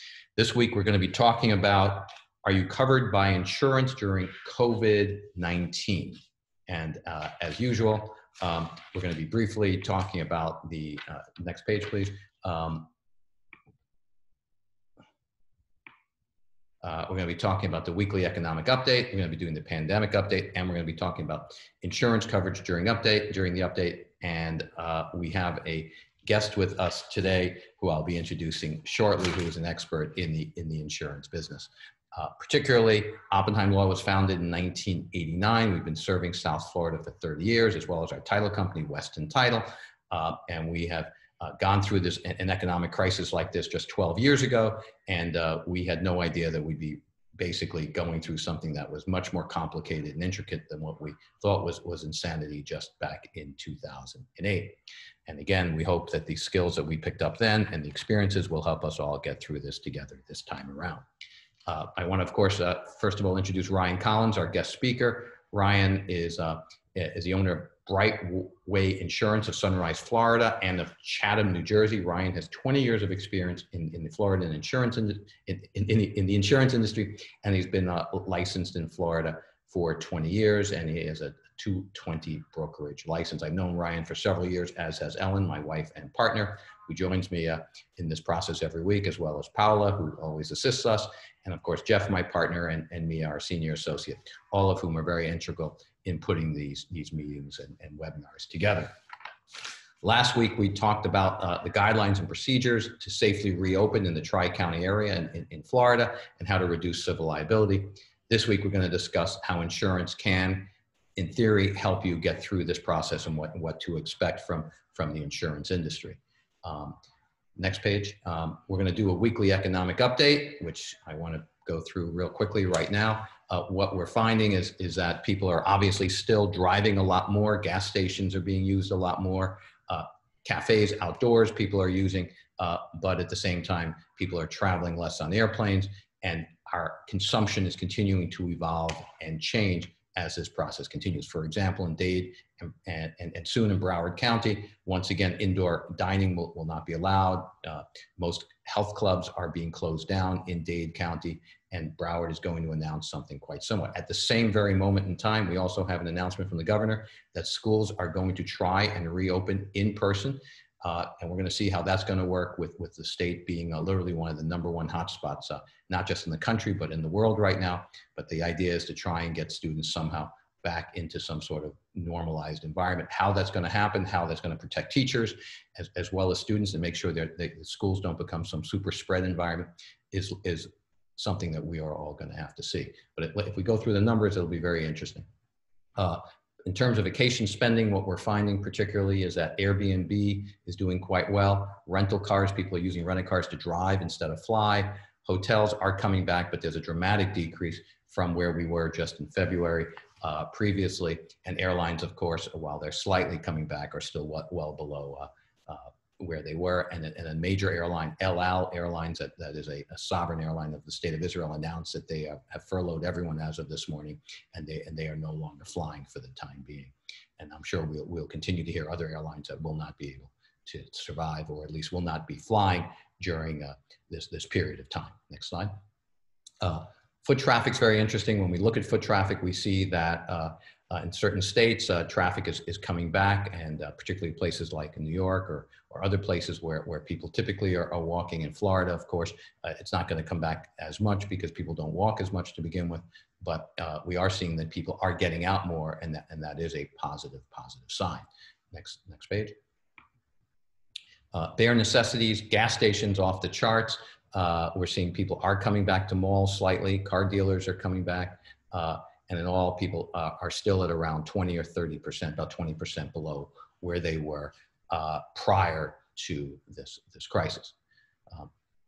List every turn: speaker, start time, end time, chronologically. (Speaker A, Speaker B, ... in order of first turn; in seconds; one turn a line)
Speaker A: 0.4-12.9
Speaker A: 16.8-54.8
Speaker A: 55.3-61.0
Speaker A: 61.7-98.9
Speaker A: 100.0-117.0
Speaker A: 117.6-185.2
Speaker A: 186.0-225.7
Speaker A: 226.6-249.6
Speaker A: 251.3-267.8